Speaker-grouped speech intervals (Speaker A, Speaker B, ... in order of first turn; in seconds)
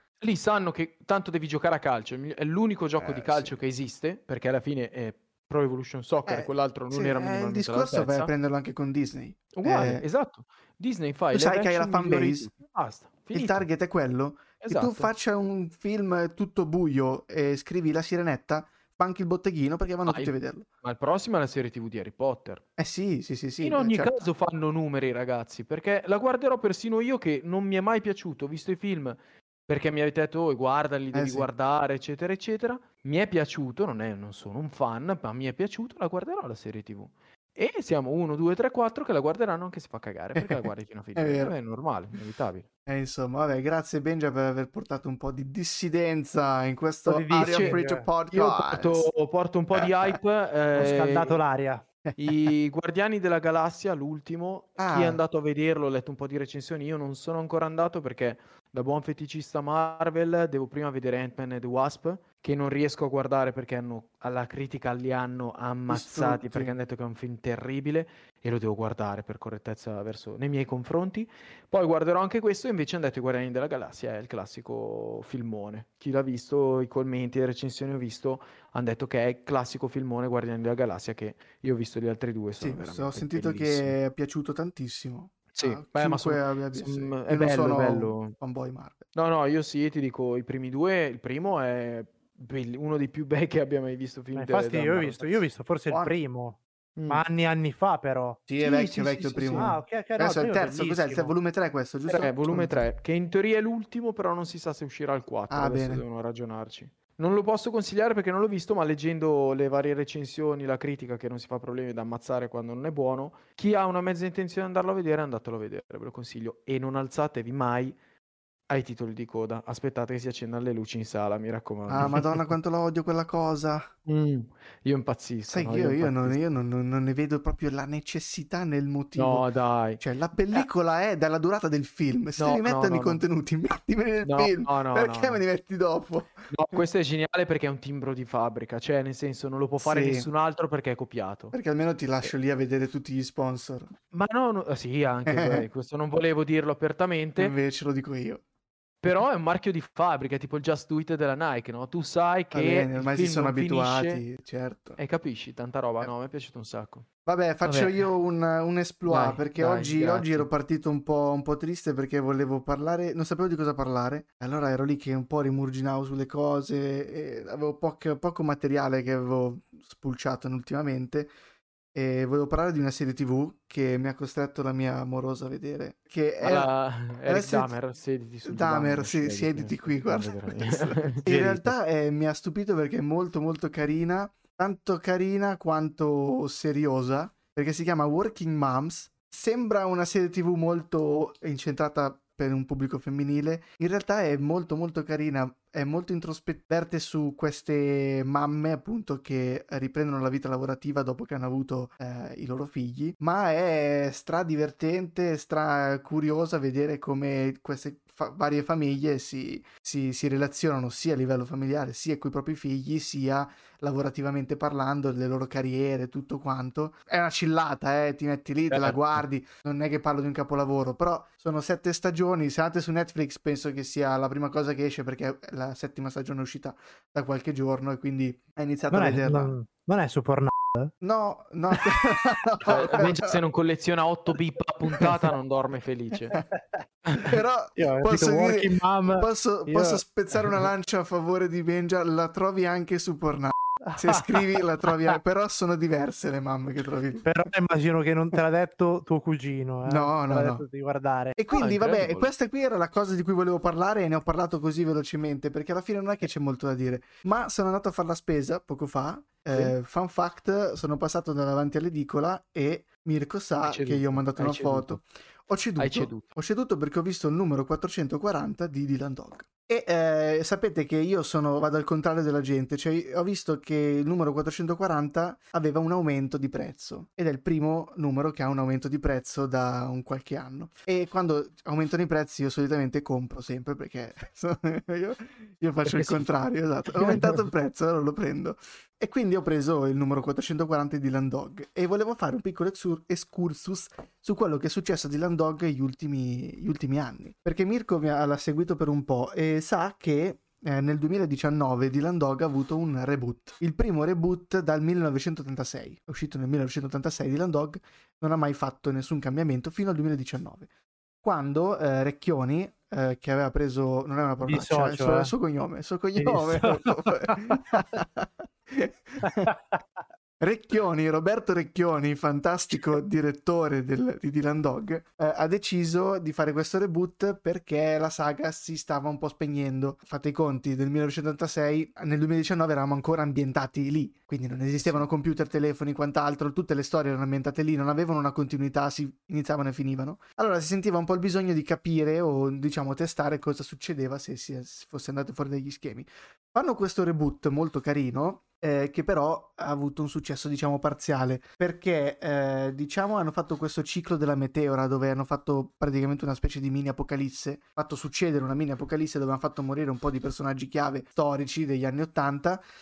Speaker A: 0.2-8.3, 9.5-13.7, 14.6-15.1, 20.1-22.6, 23.6-42.7, 47.3-47.8, 48.3-51.4, 52.2-84.0, 85.5-88.3, 89.2-95.4, 97.0-97.2, 99.4-99.7, 102.1-118.0, 118.7-122.5, 124.1-126.4, 129.2-130.0, 132.4-133.2, 134.2-135.4, 136.5-141.5, 144.1-147.6, 149.0-154.2, 155.0-157.1, 157.7-158.1, 159.1-160.5, 176.4-181.7, 218.7-219.2, 232.7-236.4, 237.1-237.3, 251.5-252.3, 263.6-265.0, 265.8-266.3, 285.9-286.3, 286.9-287.4
Speaker B: 3.0-3.6, 6.3-10.1, 11.3-12.5, 13.3-20.7, 22.8-24.3, 31.1-31.5, 40.4-41.5, 42.9-49.1, 49.8-50.2, 52.0-52.5, 54.8-55.2, 65.9-66.7, 82.6-89.1, 95.9-96.2, 98.5-102.9, 105.5-106.0, 121.9-123.9, 125.5-129.4, 130.0-136.8, 139.8-140.3, 141.5-143.9, 145.2-145.7, 147.4-148.4, 152.5-155.0, 157.3-171.3, 171.9-176.7, 177.3-177.7, 178.4-229.5, 231.0-233.4, 237.3-247.3, 249.8-250.7, 251.4-310.7, 311.2-319.5, 320.4-362.6
Speaker C: 47.1-48.1, 50.8-51.8, 94.3-101.3, 228.9-230.9, 236.5-236.8, 237.8-240.0, 243.8-245.2, 247.2-251.4, 314.4-315.3, 316.2-317.6, 319.2-319.8